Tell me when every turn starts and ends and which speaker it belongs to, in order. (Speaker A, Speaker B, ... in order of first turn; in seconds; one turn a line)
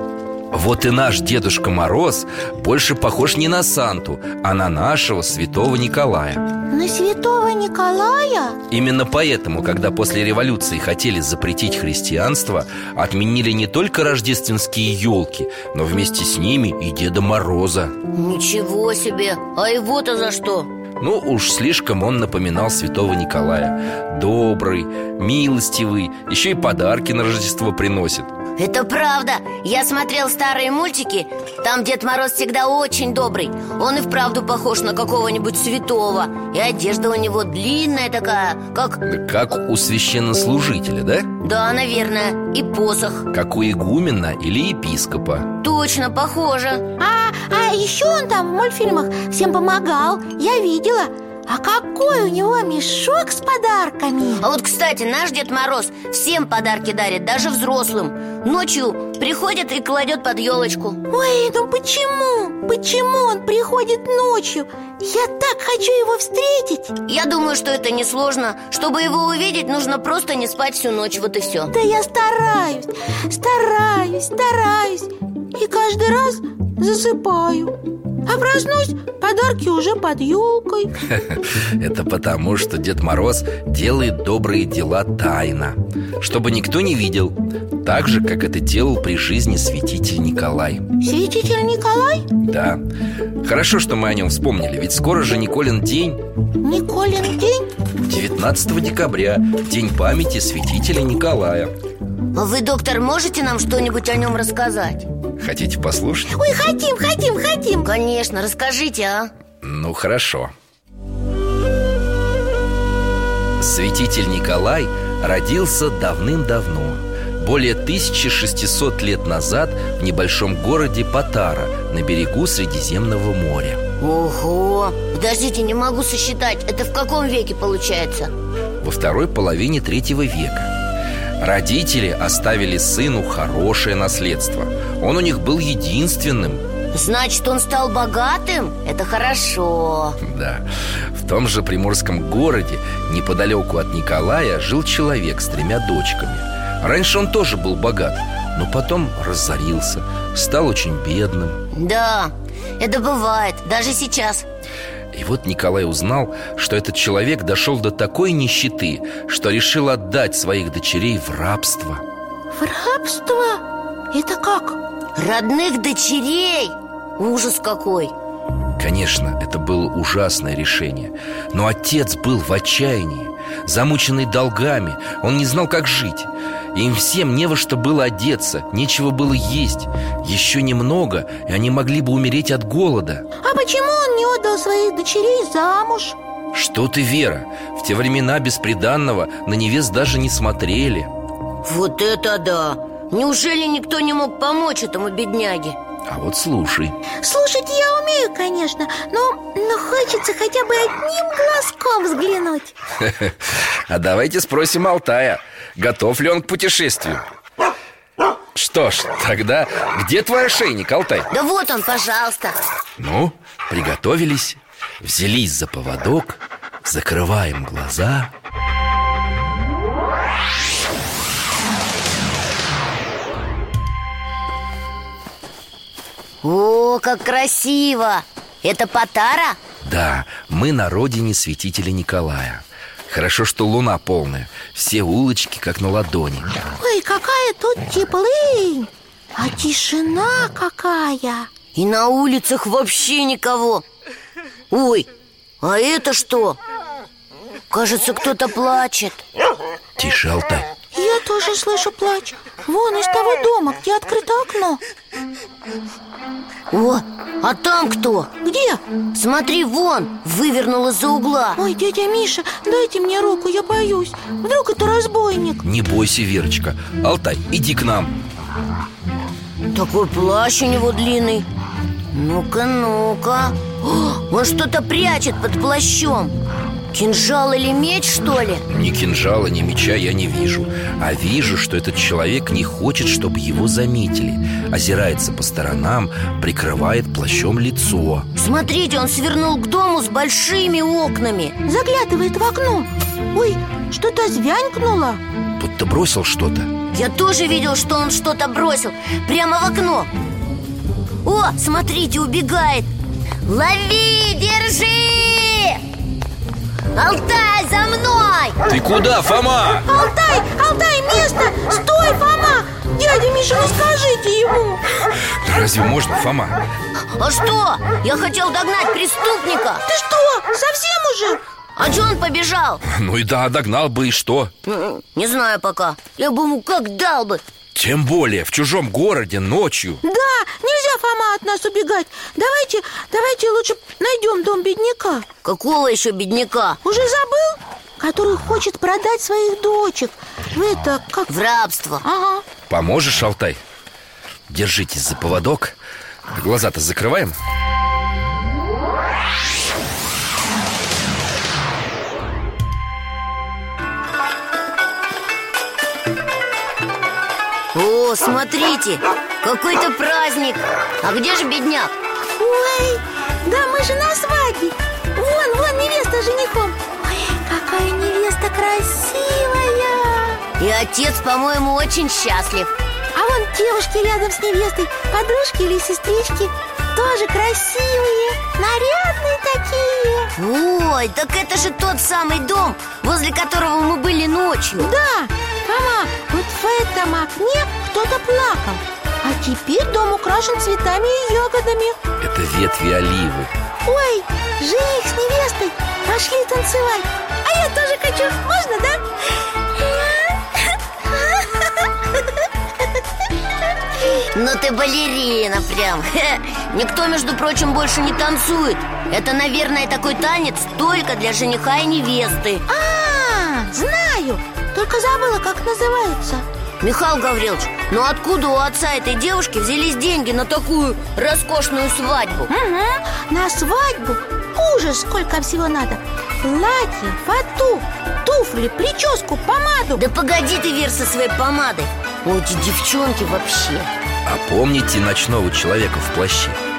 Speaker A: 0.5-6.5
Speaker B: 6.7-8.6
Speaker A: 8.7-17.9
Speaker C: 18.1-20.7
Speaker A: 21.0-28.3
Speaker C: 28.6-39.0
Speaker A: 39.0-41.3
Speaker C: 41.4-43.3
Speaker A: 43.3-45.5
Speaker C: 45.6-46.9
Speaker B: 47.0-54.5
Speaker C: 54.4-61.0
Speaker B: 61.1-67.0
Speaker C: 67.1-71.7
Speaker B: 71.7-77.7
Speaker B: 78.2-80.9
Speaker A: 81.0-90.9
Speaker B: 91.0-92.3
Speaker A: 92.4-92.8
Speaker A: 93.4-96.2
Speaker B: 96.6-97.7
Speaker A: 98.0-101.7
Speaker C: 102.3-105.1
Speaker A: 105.4-106.4
Speaker B: 106.3-107.9
Speaker C: 107.8-109.3
Speaker A: 109.6-110.5
Speaker A: 113.6-123.8
Speaker C: 124.0-128.3
Speaker A: 128.8-130.7
Speaker A: 131.4-136.6
Speaker C: 136.9-140.2
Speaker A: 140.2-151.6
Speaker C: 151.7-154.4
Speaker A: 155.1-162.0
Speaker B: 162.5-164.8
Speaker C: 165.2-168.1
Speaker A: 168.8-183.2
Speaker B: 183.4-186.2
Speaker A: 186.5-191.1
Speaker C: 191.6-195.8
Speaker A: 196.1-196.9
Speaker B: 197.2-202.8
Speaker A: 203.0-207.2
Speaker A: 208.5-211.3
Speaker C: 211.3-212.6
Speaker A: 213.0-218.3
Speaker C: 226.4-229.6
Speaker A: 229.8-236.5
Speaker B: 236.8-241.5
Speaker C: 241.8-243.8
Speaker C: 244.7-245.1
Speaker C: 245.6-246.6
Speaker C: 247.7-249.2
Speaker A: 250.0-250.7
Speaker B: 250.9-254.8
Speaker C: 256.7-258.3
Speaker B: 258.4-258.8
Speaker C: 259.1-261.6
Speaker B: 261.6-265.6
Speaker A: 265.6-268.2
Speaker C: 269.7-271.5
Speaker C: 272.1-276.3
Speaker C: 276.9-278.6
Speaker A: 278.7-288.3
Speaker C: 288.4-291.6
Speaker B: 291.6-295.2
Speaker A: 295.6-296.7
Speaker C: 296.9-300.1
Speaker C: 301.2-302.9
Speaker C: 303.4-305.8
Speaker C: 306.9-308.6
Speaker A: 308.7-309.9
Speaker B: 309.9-314.8
Speaker A: 315.2-316.6
Speaker C: 317.1-319.8
Speaker B: 319.9-321.4
Speaker C: 321.8-322.8
Speaker A: 322.8-324.5
Speaker C: 324.7-327.4
Speaker A: 327.8-330.0
Speaker B: 330.0-335.3
Speaker C: 335.4-336.8
Speaker B: 336.8-341.3
Speaker C: 341.3-342.0
Speaker B: 342.0-342.4
Speaker A: 342.7-343.6
Speaker A: 344.5-345.8
Speaker A: 346.3-347.4
Speaker C: 357.7-361.9
Speaker B: 362.4-370.4
Speaker C: 370.6-372.7
Speaker B: 373.2-380.3
Speaker C: 380.4-384.9
Speaker B: 384.8-392.0
Speaker A: 392.2-393.5
Speaker B: 393.9-399.1
Speaker B: 399.7-400.4
Speaker B: 401.3-401.7
Speaker C: 404.2-412.7
Speaker B: 412.7-416.4
Speaker C: 416.8-422.5
Speaker B: 422.5-430.0
Speaker C: 430.0-433.9
Speaker A: 434.3-436.6